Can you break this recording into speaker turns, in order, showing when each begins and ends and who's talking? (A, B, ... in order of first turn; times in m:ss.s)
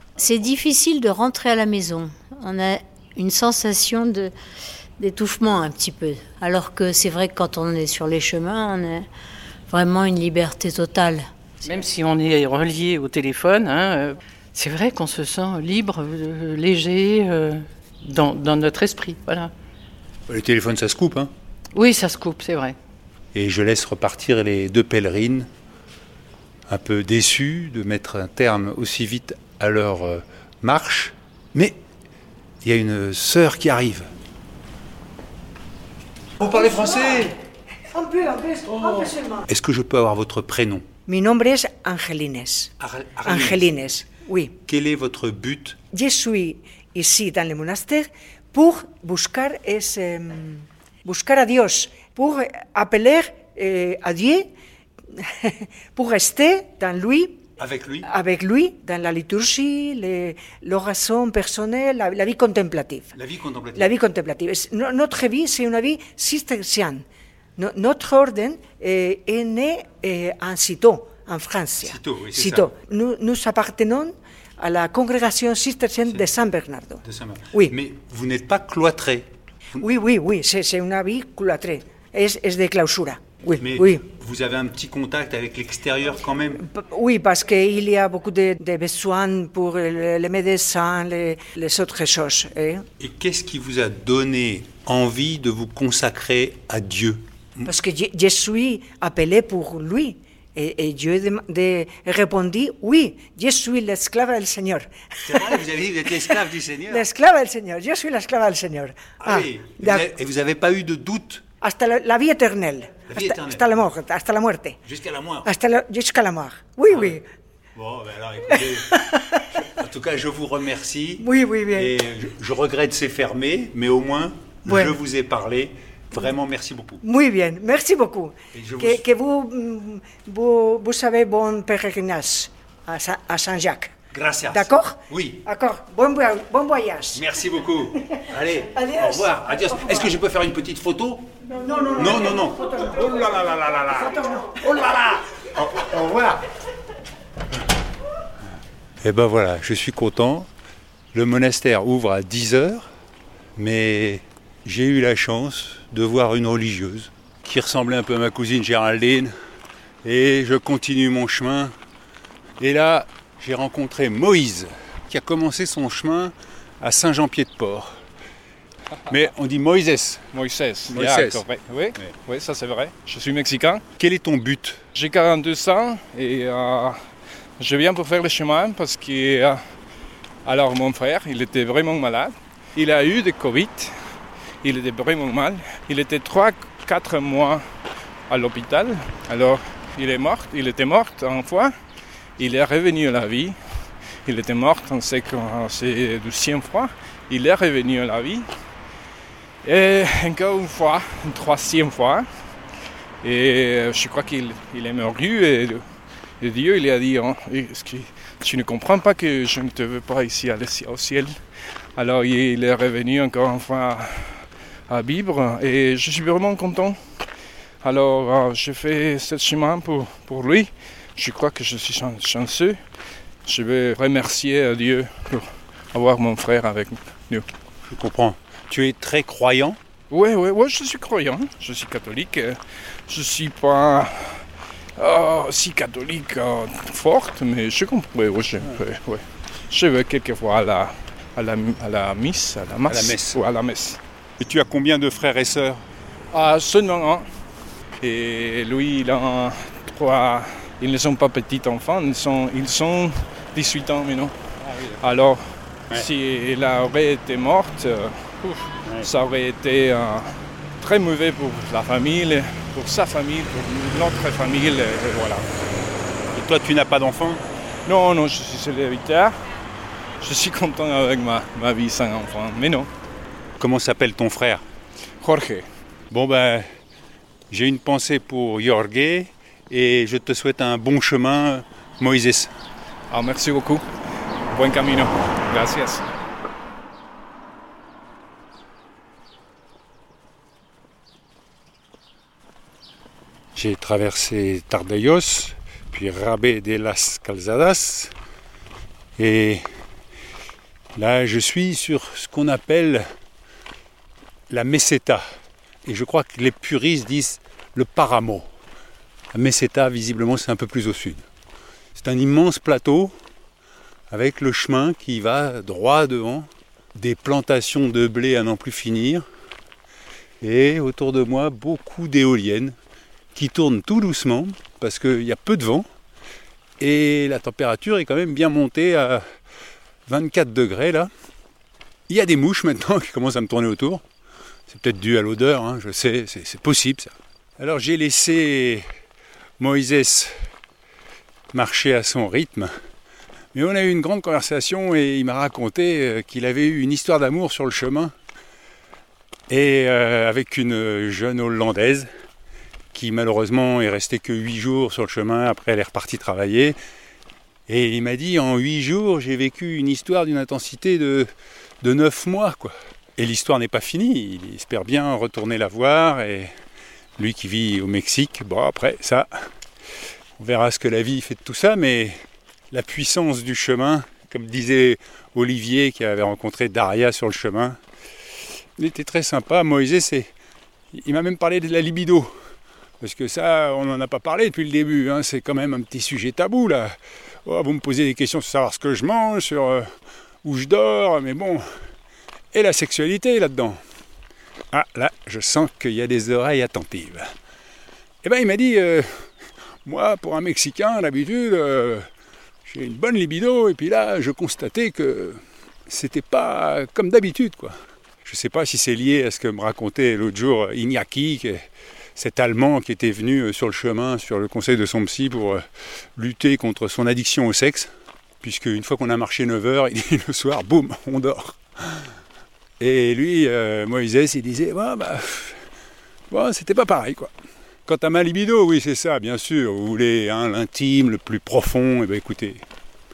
0:00.2-0:04.3 A
0:05.0-0:09.1 A
0:09.7-0:11.7 A
0:11.7-0:19.5 B
0:20.3-0:21.3 C
0:21.7-0:22.8 B
0:23.3-0:25.5 C
0:26.7-0:31.8 C
0:32.6-0:34.1 C
0:36.4-0:37.3 C
0:36.7-0:37.2 D
0:37.9-0:39.4 D
0:39.5-0:40.8 C
0:41.1-0:42.7 D
0:42.8-0:43.8 C
0:43.2-0:44.6 D
0:44.6-0:45.8 C
0:45.9-0:54.5 D
0:55.1-0:57.4 D
0:57.6-0:58.1 C
0:58.1-1:03.1 D
1:03.1-1:03.9 C
1:03.8-1:07.0 D
1:07.6-1:17.7 D
1:11.8-1:12.7 C
1:17.0-1:19.9 C
1:19.8-1:24.0 D
1:23.6-1:26.6 C
1:26.6-1:32.8 D
1:33.0-1:37.7 C
1:37.7-1:45.6 D
1:45.2-1:47.1 C
1:46.9-1:50.1 D
1:49.2-1:51.4 C
1:51.6-1:54.8 D
1:53.1-1:53.7 C
1:54.8-1:55.5 C
1:55.4-1:57.2 D
1:56.9-1:57.2 C
1:57.8-1:59.0 C
1:58.6-1:59.4 D
1:59.5-2:07.0 C
2:01.2-2:01.9 D
2:04.7-2:05.0 D
2:07.0-2:13.9 D
2:08.5-2:09.0 C
2:14.1-2:15.4 C
2:14.5-2:17.2 D
2:17.1-2:21.3 C
2:18.7-2:19.3 D
2:21.6-2:22.8 D
2:21.9-2:26.4 C
2:29.0-2:30.5 C
2:31.1-2:32.9 C
2:33.6-2:39.3 C
2:40.0-2:41.7 C
2:42.6-2:48.0 C
2:49.1-2:50.2 C
2:50.3-2:53.8 E
2:50.9-2:51.4 C
2:54.0-2:54.8 C
2:55.0-2:57.0 E
2:57.6-2:59.6 E
3:00.4-3:04.0 E
3:04.6-3:07.6 E
3:08.3-3:11.7 E
3:12.4-3:13.6 E
3:14.2-3:18.5 E
3:19.6-3:22.3 E
3:23.2-3:25.8 E
3:26.4-3:31.4 E
3:32.0-3:37.0 E
3:37.8-3:42.8 E
3:43.5-3:47.5 E
3:47.8-3:49.8 C
3:50.1-3:54.4 E
3:55.0-4:04.0 E
4:02.9-4:03.4 C
4:04.4-4:05.8 C
4:06.3-4:07.3 E
4:08.0-4:14.4 E
4:14.6-4:15.0 C
4:15.0-4:25.5 E
4:26.3-4:27.4 C
4:27.9-4:29.4 E
4:30.2-4:32.9 E
4:33.6-4:34.6 C
4:35.2-4:35.7 E
4:36.1-4:36.7 C
4:37.5-4:42.5 C
4:43.1-4:43.9 E
4:44.5-4:46.1 E
4:53.6-4:58.1 C
4:59.2-4:59.6 C
5:01.0-5:03.0 C
5:04.5-5:05.2 C
5:05.9-5:08.5 C
5:09.3-5:11.2 C
5:12.0-5:13.1 C
5:14.1-5:19.2 C
5:20.4-5:22.8 C
5:23.4-5:25.9 C
5:26.8-5:29.2 C
5:30.1-5:31.1 C
5:32.1-5:34.0 C
5:34.7-5:38.8 C
5:39.6-5:40.3 C
5:41.5-5:42.7 C
5:43.5-5:48.1 C
5:49.5-5:52.1 C
5:52.9-5:56.8 C
5:57.7-6:01.3 C
6:01.8-6:06.5 C
6:07.2-6:09.3 C
6:10.4-6:12.2 C
6:12.7-6:17.8 C
6:18.8-6:20.3 C
6:20.9-6:22.3 C
6:23.0-6:27.0 C
6:27.5-6:29.9 C
6:30.4-6:31.6 C
6:32.5-6:33.8 C
6:34.7-6:37.3 C
6:38.2-6:39.1 C
6:39.8-6:42.0 C
6:42.6-6:51.6 C
6:52.2-6:55.6 C
6:56.2-6:57.9 C
6:58.4-7:02.0 C
7:02.8-7:05.6 C
7:06.3-7:07.3 C
7:07.9-7:12.6 C